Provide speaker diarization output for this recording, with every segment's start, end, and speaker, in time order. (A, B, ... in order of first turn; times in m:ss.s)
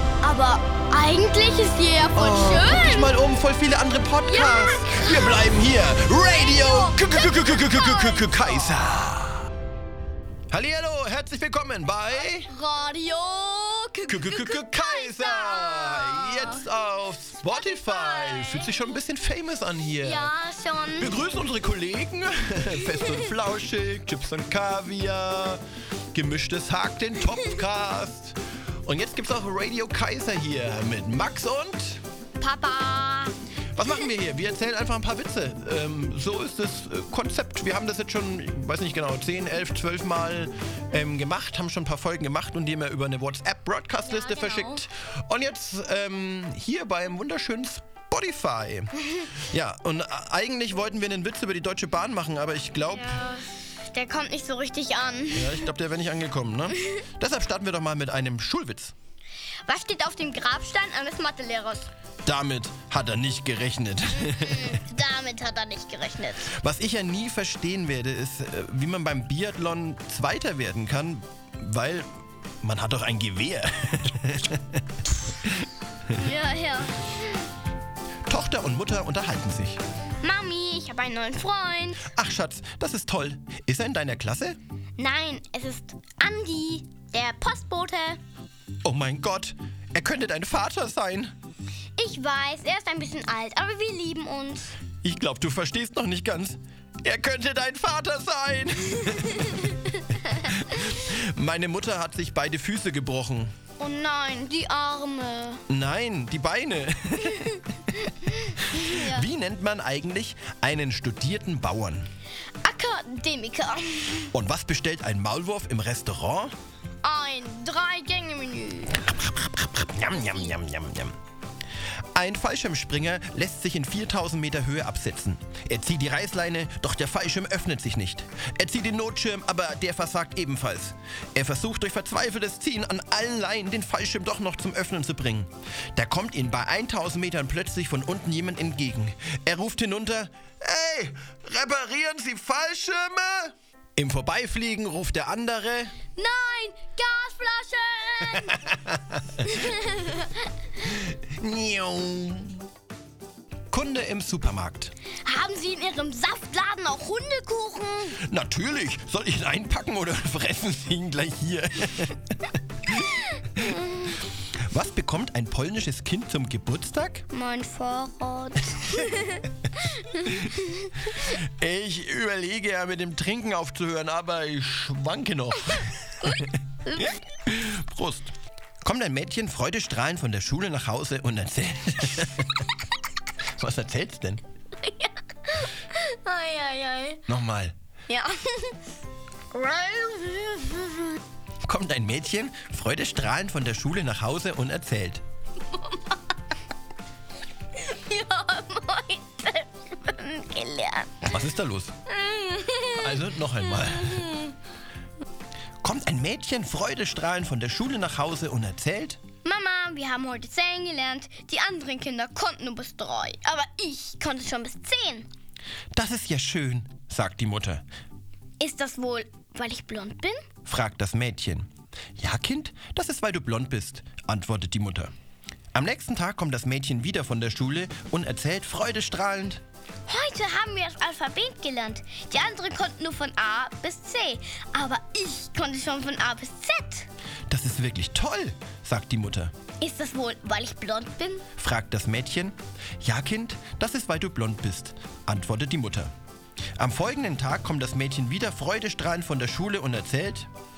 0:00.2-0:03.1 A
0:02.1-0:09.5 B
0:04.2-0:05.6 A
0:06.1-0:08.4 A
0:10.5-0:12.5 B
0:12.4-0:16.6 A
0:14.1-0:20.3 B
0:17.5-0:18.9 A
0:20.0-0:21.2 A
0:21.0-0:25.6 B
0:22.8-0:23.3 A
0:26.1-0:32.0 B
0:32.4-0:33.4 A
0:33.8-0:53.2 B
0:44.0-0:44.8 A
0:52.9-0:55.7 A
0:55.3-0:58.9 B
0:59.7-1:01.9 A
1:02.2-1:04.8 B
1:04.1-1:06.5 A
1:06.5-1:12.1 B
1:12.6-1:15.7 B
1:16.1-1:17.3 A
1:18.3-1:19.8 B
1:20.2-1:22.1 A
1:22.1-1:24.6 B
1:25.0-1:28.2 A
1:28.8-1:31.3 B
1:32.0-1:34.8 A
1:35.0-1:39.7 B
1:39.2-1:40.5 A
1:40.3-1:43.5 B
1:43.8-1:45.6 A
1:45.7-1:47.6 B
1:48.1-1:49.2 A
1:48.7-1:52.1 B
1:52.6-1:54.3 A
1:54.3-1:56.5 B
1:57.0-1:59.1 A
1:59.0-2:01.1 B
2:00.1-2:00.5 A
2:02.1-2:26.0 B
2:26.2-2:28.6 A
2:28.5-2:29.5 B
2:29.4-2:30.5 A
2:30.8-2:32.6 B
2:33.7-2:34.9 B
2:35.2-2:38.2 A
2:38.2-2:42.2 B
2:42.8-2:43.8 B
2:43.2-2:44.2 A
2:44.7-2:47.2 B
2:47.3-2:50.9 A
2:51.1-3:02.7 B
2:56.8-2:57.2 A
3:03.6-3:04.4 B
3:04.8-3:07.2 A
3:07.3-3:07.8 B
3:08.1-3:08.8 A
3:09.5-3:11.2 A
3:11.6-3:15.2 B
3:17.8-3:21.3 A
3:21.2-3:21.9 B
3:22.1-3:24.6 A
3:22.9-3:24.4 B
3:25.8-3:29.2 B
3:29.4-3:35.3 A
3:35.9-3:37.8 B
3:38.6-3:40.5 A
3:40.7-3:41.7 B
3:42.2-3:45.1 B
3:45.7-3:49.6 B
3:50.1-3:57.1 A
3:57.5-3:59.5 B
3:59.8-4:01.4 A
4:01.6-4:06.1 B
4:06.8-4:10.5 B